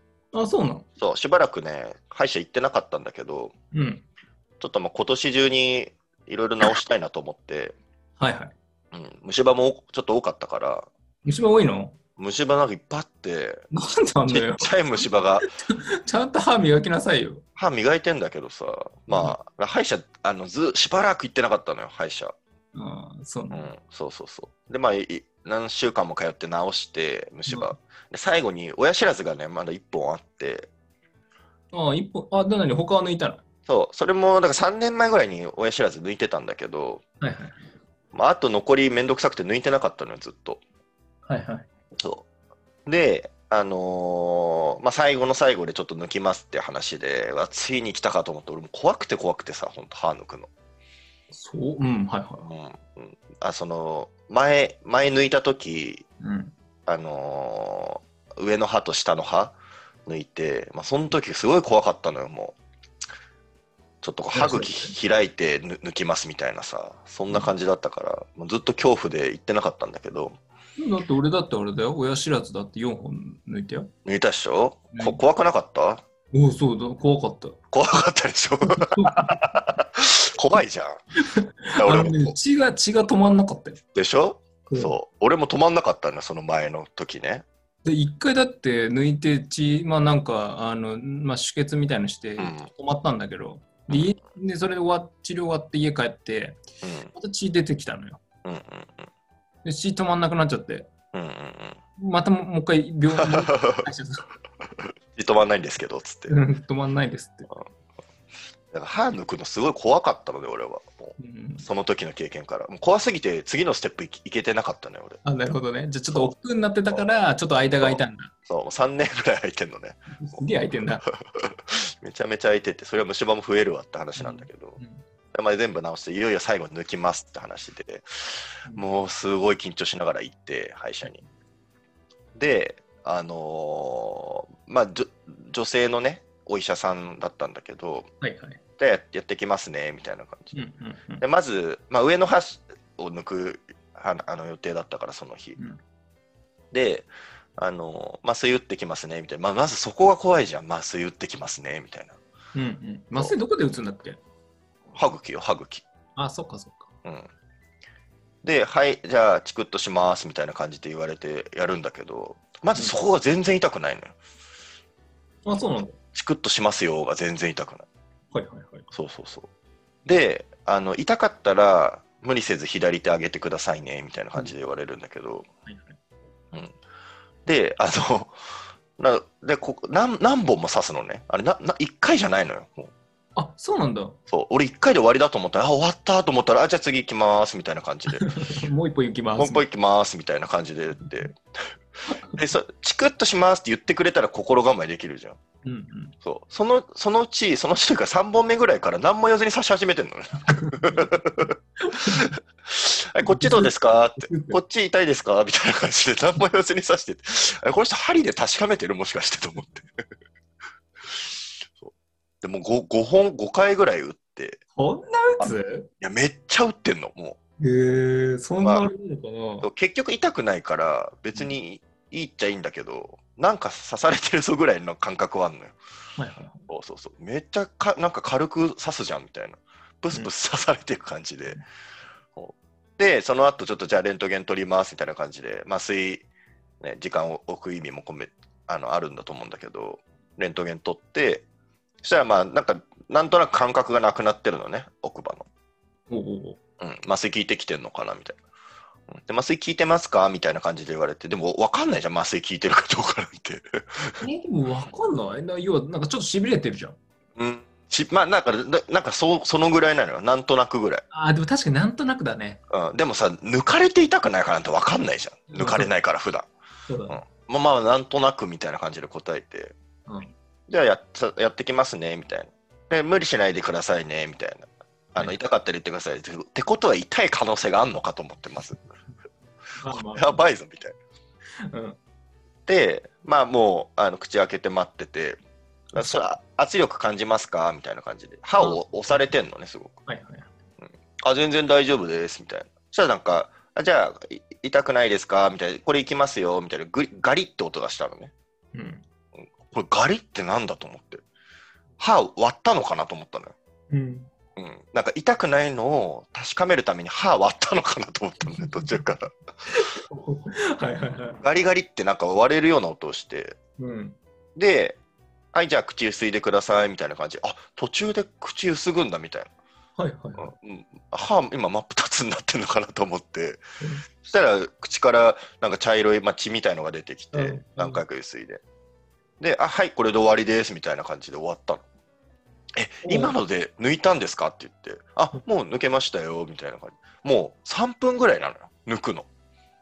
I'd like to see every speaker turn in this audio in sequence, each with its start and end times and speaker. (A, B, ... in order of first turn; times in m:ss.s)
0:00.3-0:00.8 A
0:01.0-0:03.5 B
0:03.7-0:04.0 A
0:04.6-0:07.8 B
0:08.2-0:08.5 A
0:08.9-0:10.9 B
0:11.2-0:12.0 A
0:12.2-0:13.7 B
0:13.7-0:17.4 A
0:14.3-0:15.4 B
0:17.6-0:22.3 B
0:19.1-0:19.4 A
0:22.7-0:23.7 A
0:23.5-0:30.7 B
0:27.5-0:27.7 A
0:31.7-0:33.4 A
0:33.7-0:37.0 B
0:37.2-0:37.6 A
0:38.1-0:40.6 B
0:41.2-0:41.7 A
0:42.0-0:42.2 B
0:42.8-0:50.5 B
0:51.3-0:52.5 A
0:52.4-0:56.0 B
0:56.2-0:56.5 A
0:56.9-0:59.6 B
1:00.1-1:02.6 B
1:04.0-1:10.4 B
1:04.3-1:04.9 A
1:10.8-1:13.9 A
1:14.0-1:16.0 B
1:14.9-1:15.2 A
1:16.3-1:17.6 A
1:17.7-1:21.0 B
1:18.6-1:19.4 A
1:21.3-1:23.8 A
1:21.8-1:22.4 B
1:23.9-1:27.4 B
1:24.7-1:24.9 A
1:27.8-1:38.2 A
1:32.4-1:32.7 B
1:36.8-1:37.1 B
1:38.4-1:39.1 B
1:39.6-1:40.9 A
1:41.1-1:41.8 B
1:42.0-1:44.3 A
1:43.2-1:43.8 B
1:45.1-1:46.4 B
1:46.3-1:47.6 A
1:48.7-1:55.2 B
1:51.2-1:51.6 A
1:55.2-1:58.3 A
1:57.8-2:00.4 B
2:00.1-2:01.0 A
2:01.1-2:04.8 B
2:04.2-2:05.0 A
2:05.3-2:11.2 B
2:12.4-2:18.1 B
2:18.2-2:18.6 A
2:18.8-2:20.5 B
2:20.5-2:21.2 A
2:21.2-2:25.6 B
2:26.7-2:32.2 B
2:32.5-2:34.2 A
2:34.9-2:35.8 B
2:36.2-2:36.9 A
2:37.0-2:37.3 B
2:38.4-2:44.1 B
2:45.4-2:45.9 A
2:45.5-2:47.9 B
2:48.3-2:48.9 A
2:48.9-2:49.5 B
2:50.0-2:55.5 B
2:55.6-2:56.0 A
2:57.4-2:58.4 B
2:59.0-3:02.9 B
3:03.4-3:04.2 A
3:04.3-3:08.3 B
3:08.1-3:09.6 A
3:09.4-3:11.4 B
3:12.1-3:15.4 B
3:15.6-3:16.1 A
3:16.2-3:21.5 B
3:20.5-3:21.1 A
3:21.8-3:22.3 A
3:22.1-3:29.8 B
3:23.2-3:24.6 A
3:31.1-3:34.6 B
3:34.8-3:35.9 A
3:35.4-3:37.4 B
3:37.6-3:39.7 A
3:38.6-3:38.9 B
3:39.6-3:45.8 B
3:46.2-3:46.6 A
3:46.7-3:51.6 B
3:52.3-3:56.2 B
3:56.8-4:01.4 B
4:02.0-4:05.5 B
4:06.1-4:06.6 A
4:06.8-4:08.4 B
4:09.1-4:14.2 B
4:14.2-4:17.0 A
4:17.4-4:21.0 B
4:21.1-4:22.6 A
4:22.7-4:26.5 B
4:25.5-4:25.9 A
4:26.9-4:27.2 A
4:27.1-4:29.7 B
4:30.1-4:30.3 A
4:30.7-4:38.8 B
4:39.8-4:40.4 A
4:39.8-4:41.0 B
4:41.7-4:42.0 A
4:42.7-4:45.4 B
4:45.9-4:50.0 B
4:50.1-4:50.5 A
4:51.2-4:58.3 B
4:58.7-4:59.0 A
4:59.5-5:01.2 B
5:02.0-5:03.5 B
5:03.9-5:04.3 A
5:04.6-5:09.3 B
5:08.5-5:09.0 A
5:09.7-5:11.4 A
5:11.4-5:13.6 B
5:13.8-5:14.2 A
5:14.6-5:15.0 B
5:15.5-5:19.5 B
5:20.0-5:20.5 A
5:20.4-5:23.6 B
5:24.2-5:28.6 B
5:27.3-5:28.0 A
5:29.4-5:31.8 B
5:32.8-5:39.3 B
5:33.0-5:33.4 A